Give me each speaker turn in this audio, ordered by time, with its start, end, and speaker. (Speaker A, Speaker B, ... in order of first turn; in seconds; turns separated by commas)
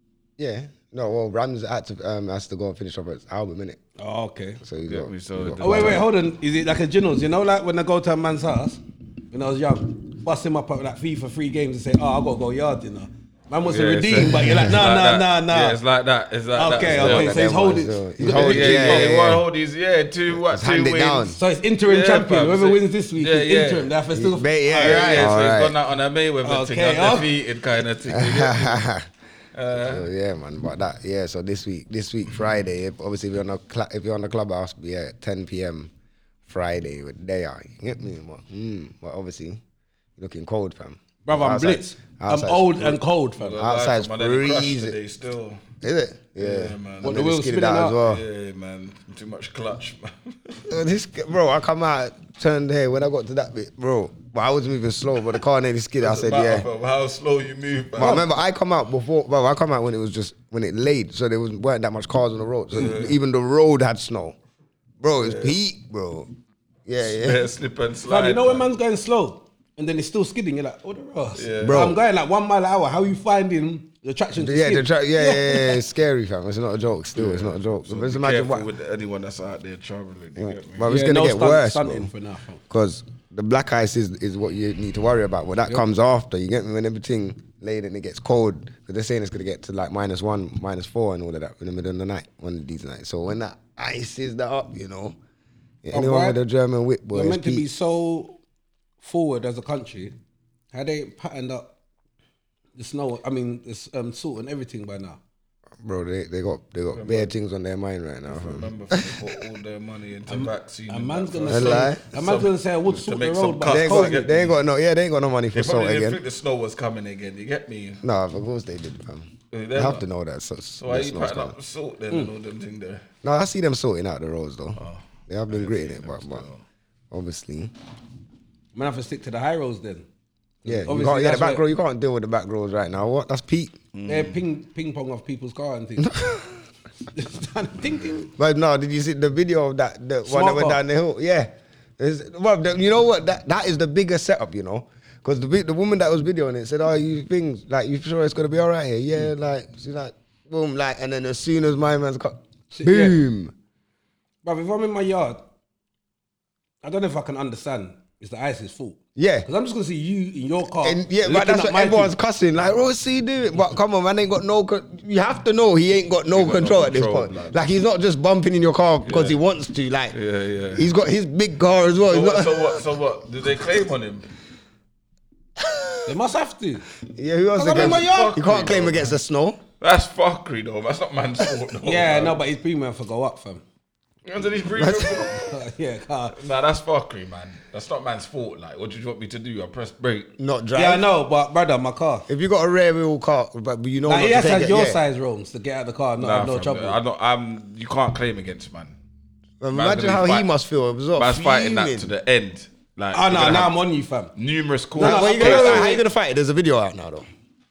Speaker A: 0.4-3.8, Speaker B: 4.0-4.6, Speaker A: 4.6-6.1, Speaker C: 4.9-6.1, Speaker B: 5.6-15.8, Speaker C: 13.7-17.4, Speaker B: 16.5-19.2, Speaker A: 16.8-19.4, Speaker C: 18.2-23.9, Speaker A: 20.3-21.4, Speaker B: 21.4-25.3, Speaker A: 24.1-25.8, Speaker C: 24.8-28.8, Speaker B: 26.4-27.3, Speaker A: 28.1-29.1, Speaker C: 29.5-30.1, Speaker A: 29.7-35.9, Speaker A: 36.5-39.6, Speaker A: 40.2-43.0, Speaker B: 41.3-43.6, Speaker C: 43.4-45.6, Speaker A: 43.5-45.0, Speaker A: 45.8-48.2, Speaker C: 46.4-47.3, Speaker B: 47.0-48.0, Speaker C: 48.0-50.6, Speaker A: 50.7-56.7, Speaker C: 56.0-58.3, Speaker A: 58.0-64.4, Speaker C: 62.8-63.1, Speaker A: 65.0-66.3, Speaker C: 65.2-65.6, Speaker A: 66.9-67.5, Speaker C: 67.0-68.7, Speaker B: 68.1-75.8, Speaker C: 71.4-71.9, Speaker A: 71.6-72.0, Speaker A: 74.3-78.7, Speaker C: 77.2-80.9, Speaker A: 80.4-82.1, Speaker B: 80.9-82.6, Speaker A: 82.7-95.2, Speaker A: 95.8-97.7, Speaker B: 95.9-96.4, Speaker B: 97.1-98.4, Speaker B: 99.0-100.2, Speaker B: 100.7-101.7, Speaker B: 102.8-105.2, Speaker A: 105.8-109.4, Speaker C: 106.9-107.3, Speaker C: 108.3-114.6, Speaker B: 110.3-114.3, Speaker A: 111.5-112.0, Speaker A: 113.7-116.2, Speaker C: 115.5-118.0, Speaker A: 118.0-121.5, Speaker C: 119.5-120.0, Speaker C: 120.8-123.1, Speaker A: 123.2-126.5, Speaker C: 124.8-126.6, Speaker A: 127.1-127.7, Speaker B: 128.8-130.1, Speaker B: 130.6-131.6, Speaker A: 130.7-133.8, Speaker C: 133.9-134.4, Speaker B: 134.1-136.2, Speaker A: 136.0-136.5, Speaker B: 137.1-138.3, Speaker A: 138.4-153.5, Speaker B: 140.2-140.8, Speaker B: 152.7-153.2, Speaker B: 154.4-155.4, Speaker B: 156.8-162.1, Speaker A: 159.2-159.5, Speaker A: 160.8-170.2, Speaker C: 166.3-167.6, Speaker C: 169.0-169.4, Speaker C: 170.1-170.9, Speaker A: 170.7-172.8, Speaker C: 172.1-174.3, Speaker A: 175.6-176.0, Speaker B: 176.1-176.9, Speaker A: 177.1-179.6, Speaker B: 177.6-178.4, Speaker C: 177.7-179.1, Speaker C: 179.8-182.4, Speaker B: 181.8-183.6, Speaker C: 184.2-185.5, Speaker A: 184.7-185.3, Speaker B: 185.4-186.4, Speaker C: 186.3-190.3, Speaker A: 190.4-191.1, Speaker B: 190.8-192.3, Speaker A: 192.3-195.0, Speaker B: 194.1-197.0, Speaker C: 196.2-198.9, Speaker A: 199.6-202.1, Speaker C: 199.7-200.5, Speaker C: 201.2-203.8, Speaker B: 203.1-204.3, Speaker C: 204.4-206.0, Speaker B: 205.0-206.0, Speaker A: 205.0-207.3